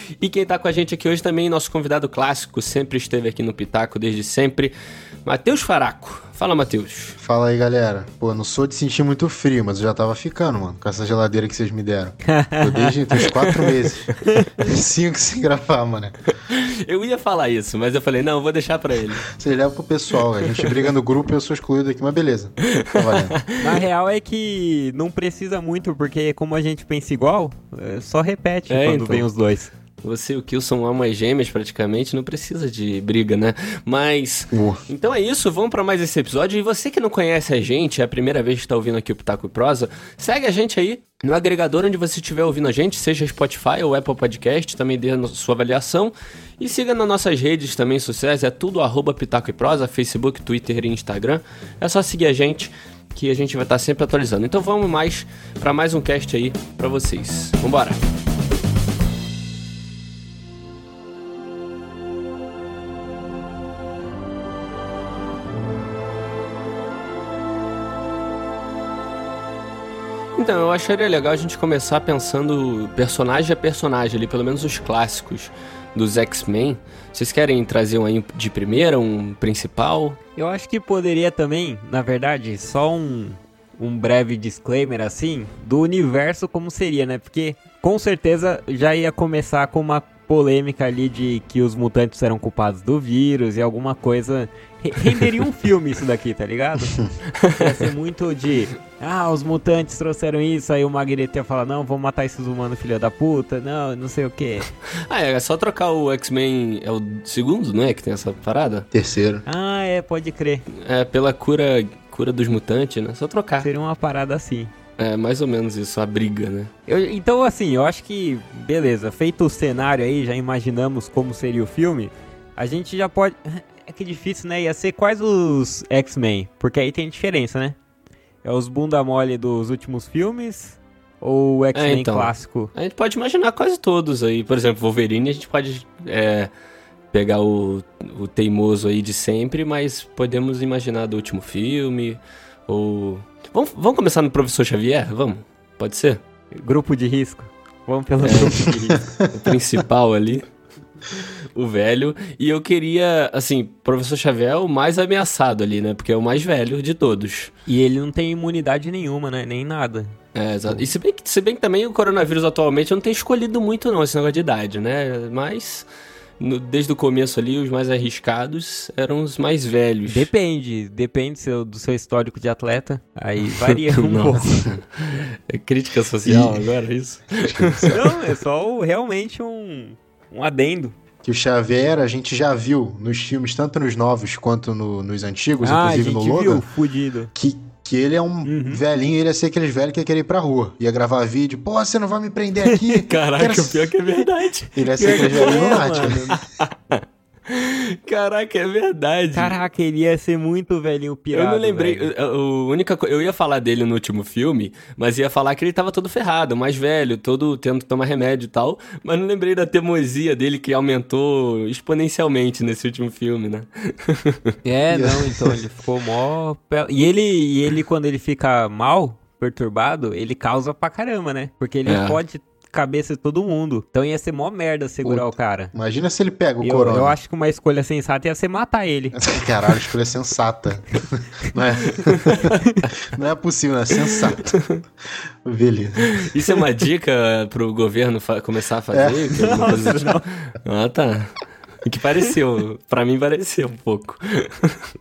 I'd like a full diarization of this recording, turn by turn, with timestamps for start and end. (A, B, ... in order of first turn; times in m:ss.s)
0:00.2-0:07.2 A
0:07.2-0:16.2 B
0:12.3-0:13.0 C
0:14.2-0:14.6 C
0:16.5-0:19.2 A
0:19.3-0:23.4 B
0:20.4-0:20.7 A
0:22.7-0:23.6 A
0:23.6-0:29.7 C
0:28.7-0:29.2 A
0:30.0-0:58.0 A
0:34.5-0:34.8 B
1:10.4-1:20.2 A
1:20.4-1:44.7 C
1:37.4-1:37.7 A
1:45.0-1:48.9 A
1:48.9-1:49.4 B
1:49.4-1:50.6 C
1:50.7-1:53.7 A
1:53.6-1:54.7 C
1:55.0-1:56.7 A
1:56.9-2:07.8 C
2:08.4-2:12.7 C
2:11.7-2:16.5 A
2:17.1-2:26.2 A
2:26.6-2:29.0 C
2:28.2-2:28.6 A
2:28.9-2:29.2 B
2:29.3-2:30.4 A
2:31.5-2:37.5 A
2:37.7-2:40.1 C
2:40.3-2:45.9 A
2:46.4-2:50.3 A
2:50.1-2:54.6 C
2:53.6-2:58.0 A
2:56.2-2:56.6 B
2:57.4-2:58.0 B
2:57.8-3:00.9 C
3:01.2-3:06.6 B
3:05.6-3:07.3 C
3:07.3-3:13.9 B
3:08.4-3:08.8 C
3:12.9-3:19.6 A
3:14.7-3:16.2 B
3:15.0-3:16.4 C
3:19.3-3:22.1 C
3:21.3-3:34.5 A
3:34.6-3:45.7 C
3:34.9-3:35.6 B
3:41.8-3:42.2 A
3:45.0-3:47.2 B
3:46.6-3:49.2 C
3:49.1-3:52.5 B
3:52.3-3:52.5 A
3:53.0-3:54.7 B
3:54.1-3:54.8 A
3:55.4-3:56.2 B
3:56.1-4:01.3 A
3:58.9-3:59.5 B
3:59.4-4:00.2 C
4:01.8-4:04.8 A